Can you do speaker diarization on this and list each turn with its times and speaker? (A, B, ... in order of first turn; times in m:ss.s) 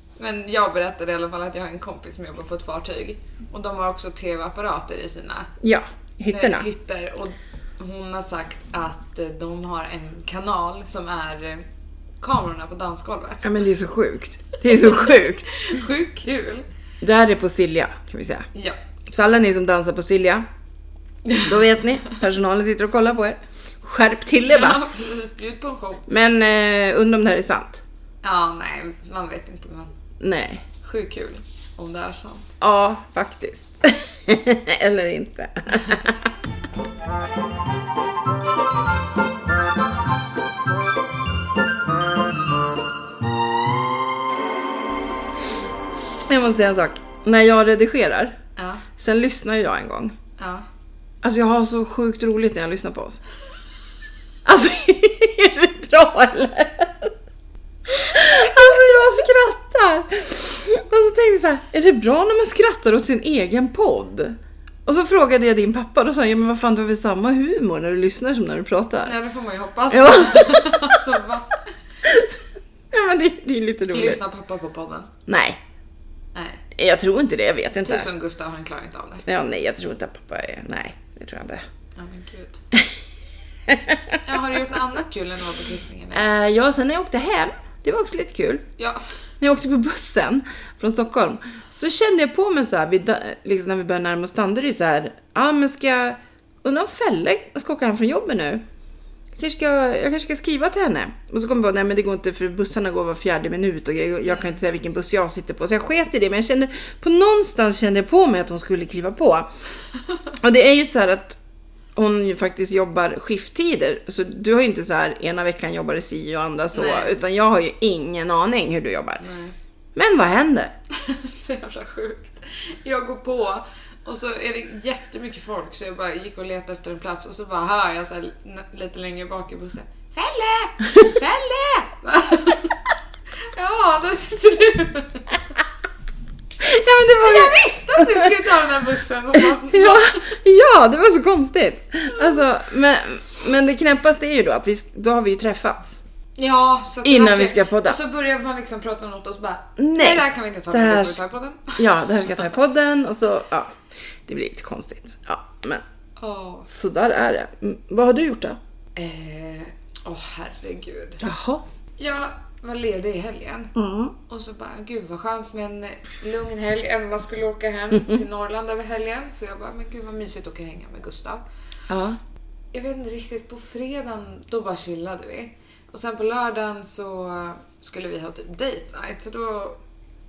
0:00.2-0:05.5 A
0:05.6-0:06.7 B
0:06.3-0:11.7 A
0:12.2-0:13.5 A
0:13.4-0:15.6 B
0:14.7-0:16.6 A
0:17.0-0:18.5 B
0:18.5-0:18.8 A
0:19.1-0:20.4 B
0:21.3-0:24.8 B
0:24.4-0:26.0 A
0:26.1-0:27.8 B
0:28.2-0:29.9 A
0:30.2-0:30.7 B
0:30.8-0:32.5 A
0:32.6-0:36.3 B
0:46.3-0:48.4 B
0:48.6-0:48.8 A
0:49.0-0:50.2 B
0:50.4-0:50.7 A
0:51.2-0:53.2 B
0:54.4-0:57.1 B
0:58.0-1:09.1 B
0:58.1-0:58.9 A
1:09.0-1:11.7 A
1:09.9-1:11.0 B
1:12.0-1:14.2 B
1:13.9-1:15.1 A
1:15.3-1:15.6 B
1:16.3-1:16.6 A
1:16.7-1:18.1 B
1:17.8-1:19.2 A
1:19.2-1:21.6 B
1:22.0-1:22.6 A
1:23.7-1:24.2 B
1:24.2-1:26.2 A
1:26.1-1:28.6 B
1:28.8-1:29.1 A
1:29.4-1:38.6 B
1:39.4-1:49.5 B
1:44.2-1:44.6 A
1:50.3-1:51.4 B
1:51.9-1:59.2 B
1:56.7-1:57.2 A
1:59.2-1:59.5 A
2:00.0-2:00.7 B
2:00.9-2:12.8 A
2:13.4-2:15.4 A
2:16.6-2:18.4 B
2:17.1-2:20.2 A
2:19.4-2:26.0 B
2:22.1-2:22.4 A
2:26.4-2:31.8 A
2:27.0-2:28.0 B
2:29.8-2:31.2 B
2:31.8-2:35.8 B
2:36.2-2:36.7 A
2:36.7-2:38.6 B
2:39.0-2:41.2 A
2:41.2-2:41.6 B
2:42.0-2:43.7 A
2:43.7-2:44.1 B
2:44.3-2:51.4 A
2:51.9-2:52.2 B
2:52.7-2:59.8 A